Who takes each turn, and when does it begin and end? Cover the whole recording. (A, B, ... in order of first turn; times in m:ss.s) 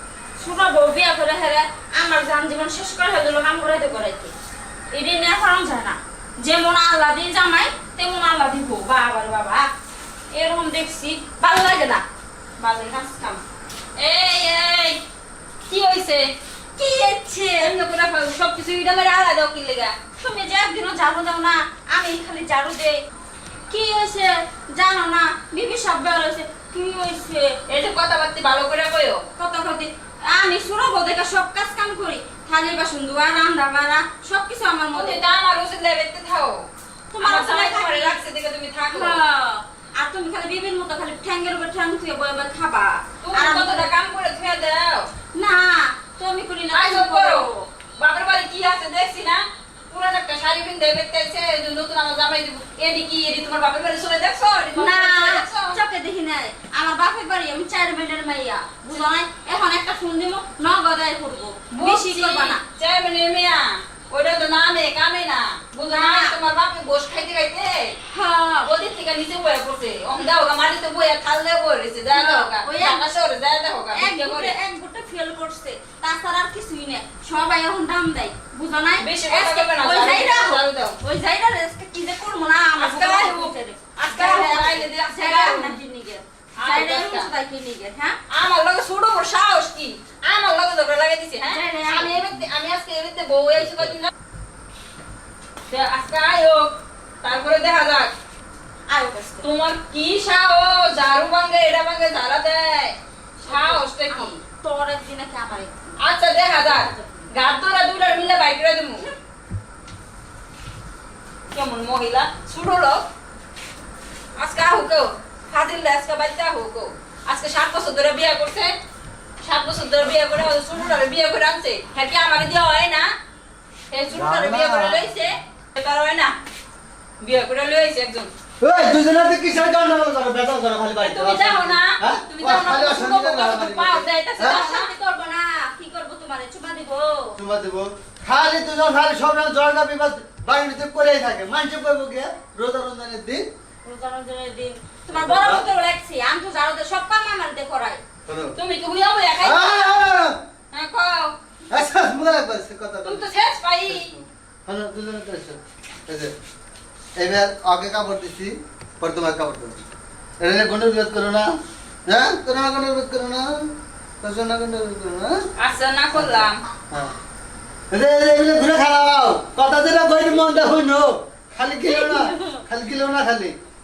0:00.4-0:04.3 A
0:04.9-0:09.7 A
0:10.3-0:12.0 A
0:12.6-0:13.4 A
0:14.0-0:15.0 B
0:15.7-0:16.3 B
0:16.8-0:17.7 A
0:17.6-0:20.0 B
0:20.2-0:23.0 A
0:23.7-0:27.6 A
0:27.7-0:29.2 B
0:29.4-0:35.2 A
0:34.9-0:36.7 B
0:37.1-0:38.2 A
0:37.2-0:39.2 B
0:38.9-0:43.9 A
0:43.2-0:45.1 B
0:45.3-0:47.7 A
0:46.7-0:55.8 B
0:54.8-1:02.6 A
1:01.7-1:08.0 B
1:05.8-1:06.4 A
1:08.1-1:08.7 A
1:08.6-1:14.6 B
1:12.1-1:13.1 A
1:13.9-1:28.2 A
1:19.0-1:21.0 B
1:22.8-1:25.8 B
1:26.6-1:27.3 B
1:28.3-1:34.1 B
1:31.4-1:32.2 A
1:35.7-1:38.1 B
1:38.9-1:39.5 A
1:39.4-1:44.4 B
1:43.4-1:46.0 A
1:46.0-1:49.1 B
1:46.6-1:47.3 A
1:51.5-1:53.0 B
1:54.4-1:58.8 B
1:59.4-2:03.1 B
2:03.9-2:06.4 B
2:04.1-2:05.1 C
2:07.2-2:08.3 B
2:08.6-2:14.6 C
2:11.0-2:14.9 B
2:14.4-2:17.4 A
2:17.4-2:23.5 C
2:23.8-2:28.0 A
2:25.1-2:25.7 C
2:28.3-2:28.6 C
2:28.6-2:30.0 B
2:29.4-2:30.4 C
2:30.7-2:31.4 B
2:31.7-2:33.3 C
2:33.0-2:34.1 B
2:33.9-2:36.3 C
2:37.2-2:39.8 C
2:40.4-2:41.5 C
2:42.1-2:45.4 C
2:45.6-2:46.6 B
2:46.1-2:47.1 C
2:47.9-2:53.6 C
2:51.8-2:52.6 A